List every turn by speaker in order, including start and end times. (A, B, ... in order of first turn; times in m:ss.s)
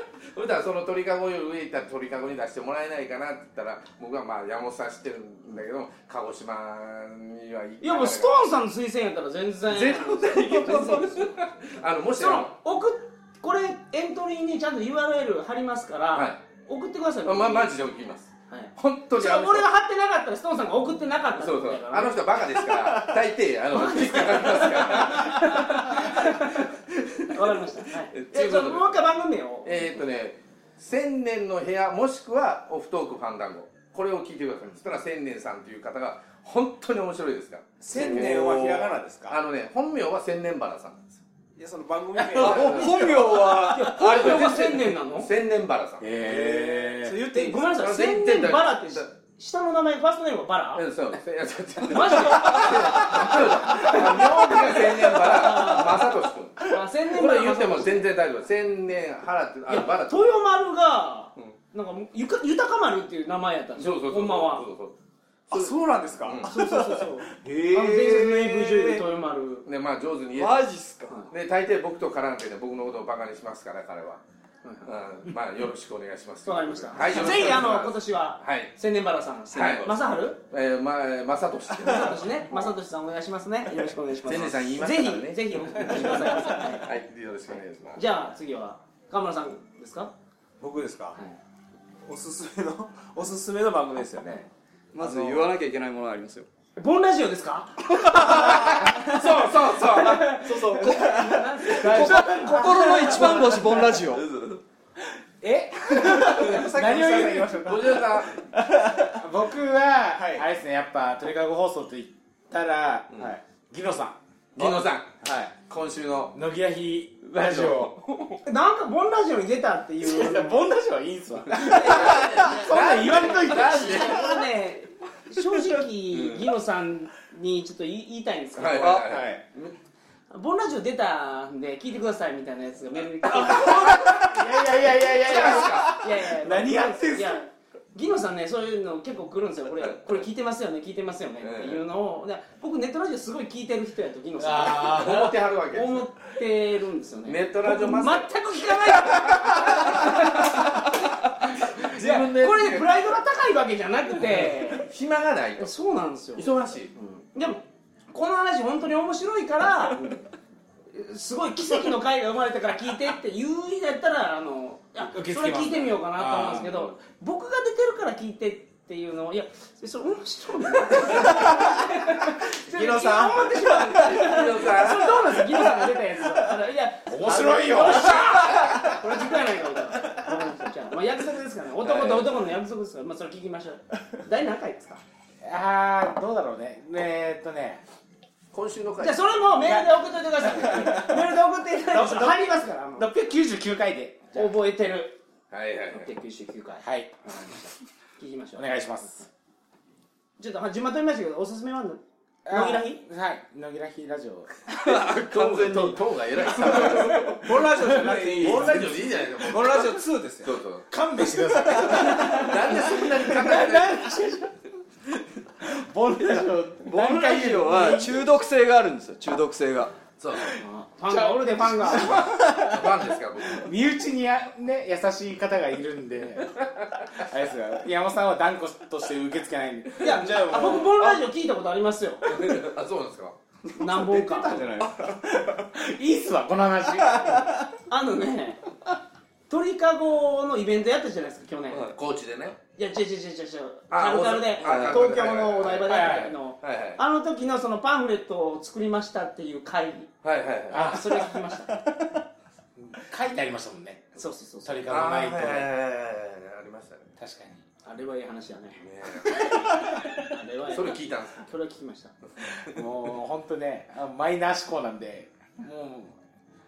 0:00.3-0:08.5 A
0:07.8-0:11.4 B
0:09.7-0:12.5 A
0:12.2-0:17.7 B
0:16.1-0:16.4 A
0:17.2-0:19.7 A
0:18.5-0:22.4 B
0:21.3-0:26.4 A
0:23.7-0:30.0 B
0:28.1-0:29.0 A
0:29.6-0:41.2 A
0:37.8-0:39.4 C
0:37.9-0:38.3 B
0:41.6-0:43.9 C
0:42.3-0:43.1 A
0:42.4-0:44.8 D
0:43.6-0:45.3 B
0:44.0-0:46.1 A
0:46.0-0:47.2 E
0:46.2-0:47.8 C
0:47.3-0:50.9 B
0:47.7-0:49.1 A
0:50.7-1:00.3 A
0:51.8-0:58.1 B
0:59.7-1:04.7 B
1:03.8-1:05.0 A
1:05.5-1:09.0 C
1:06.2-1:06.5 A
1:06.4-1:09.7 B
1:09.6-1:10.6 A
1:10.4-1:11.1 D
1:11.3-1:14.2 A
1:14.6-1:14.9 B
1:14.8-1:18.7 A
1:16.4-1:20.4 B
1:19.5-1:22.7 A
1:21.8-1:26.9 B
1:24.2-1:28.0 A
1:26.3-1:26.6 C
1:27.9-1:30.1 B
1:30.6-1:31.2 C
1:32.1-1:34.4 C
1:34.9-1:36.5 D
1:35.0-1:35.5 C
1:36.8-1:39.1 B
1:38.1-1:40.4 A
1:38.4-1:38.8 C
1:39.8-1:43.6 B
1:40.4-1:44.6 D
1:40.6-1:42.1 C
1:41.8-1:43.8 E
1:45.4-1:47.6 E
1:45.8-1:49.2 C
1:47.6-1:48.4 A
1:49.2-1:54.2 E
1:50.1-1:50.5 C
1:53.1-1:53.4 C
1:54.6-1:56.4 A
1:54.6-1:55.5 C
1:56.3-1:58.0 E
1:57.4-1:58.0 A
1:58.4-2:00.6 B
2:00.0-2:04.2 E
2:01.5-2:09.0 B
2:01.8-2:04.4 A
2:06.1-2:06.5 A
2:08.5-2:09.7 A
2:08.8-2:09.2 D
2:09.0-2:09.4 C
2:10.3-2:14.4 B
2:13.3-2:17.4 E
2:15.2-2:16.0 A
2:15.3-2:30.7 B
2:21.4-2:21.8 A
2:24.4-2:25.3 E
2:24.7-2:26.1 A
2:27.2-2:28.3 A
2:28.9-2:30.7 A
2:31.4-2:34.9 B
2:31.5-2:32.9 A
2:34.4-2:35.7 A
2:35.6-2:40.0 B
2:36.3-2:36.9 A
2:39.9-2:40.2 A
2:40.9-3:05.0 B
2:45.0-2:46.7 E
2:46.4-2:46.9 A
2:51.3-2:51.7 C
2:52.7-2:54.2 C
2:54.0-2:55.2 A
2:55.4-2:55.9 C
2:57.0-2:59.0 E
2:57.8-2:58.7 A
3:01.8-3:02.3 A
3:05.4-3:07.8 E
3:08.5-3:09.3 A
3:09.0-3:13.1 B
3:10.4-3:11.1 E
3:10.7-3:11.0 C
3:11.9-3:14.5 E
3:14.3-3:15.2 B
3:15.5-3:16.1 A
3:15.9-3:18.6 B
3:16.8-3:17.5 E
3:18.6-3:19.3 E
3:20.4-3:23.0 B
3:22.4-3:24.5 E
3:24.7-3:26.0 D
3:24.8-3:27.5 A
3:26.6-3:27.3 D
3:26.6-3:30.5 C
3:27.0-3:27.4 E
3:28.0-3:28.8 E
3:28.4-3:30.9 A
3:30.9-3:34.5 E
3:31.7-3:32.1 C
3:31.8-3:34.1 A
3:35.6-3:38.4 E
3:36.8-3:39.9 D
3:40.2-3:40.6 A
3:40.6-3:42.2 B
3:41.0-3:42.8 E
3:42.1-3:43.7 A
3:43.5-3:51.2 E
3:50.0-3:52.6 B
3:52.3-3:53.4 A
3:53.7-3:54.7 B
3:53.8-3:55.7 C
3:55.7-3:57.6 E
3:57.0-3:57.6 C
3:57.9-3:58.6 B
3:59.5-4:01.9 B
4:01.9-4:02.6 A
4:02.8-4:10.1 B
4:03.9-4:06.1 A
4:04.6-4:05.0 D
4:05.7-4:06.4 E
4:06.6-4:07.0 A
4:10.2-4:10.9 A
4:10.7-4:11.8 B
4:10.7-4:11.3 E
4:12.8-4:15.7 E
4:14.2-4:15.0 B
4:14.9-4:17.1 A
4:17.2-4:17.6 E
4:17.8-4:22.1 B
4:18.8-4:19.9 A
4:20.6-4:21.5 A
4:22.4-4:22.8 A
4:22.7-4:26.2 E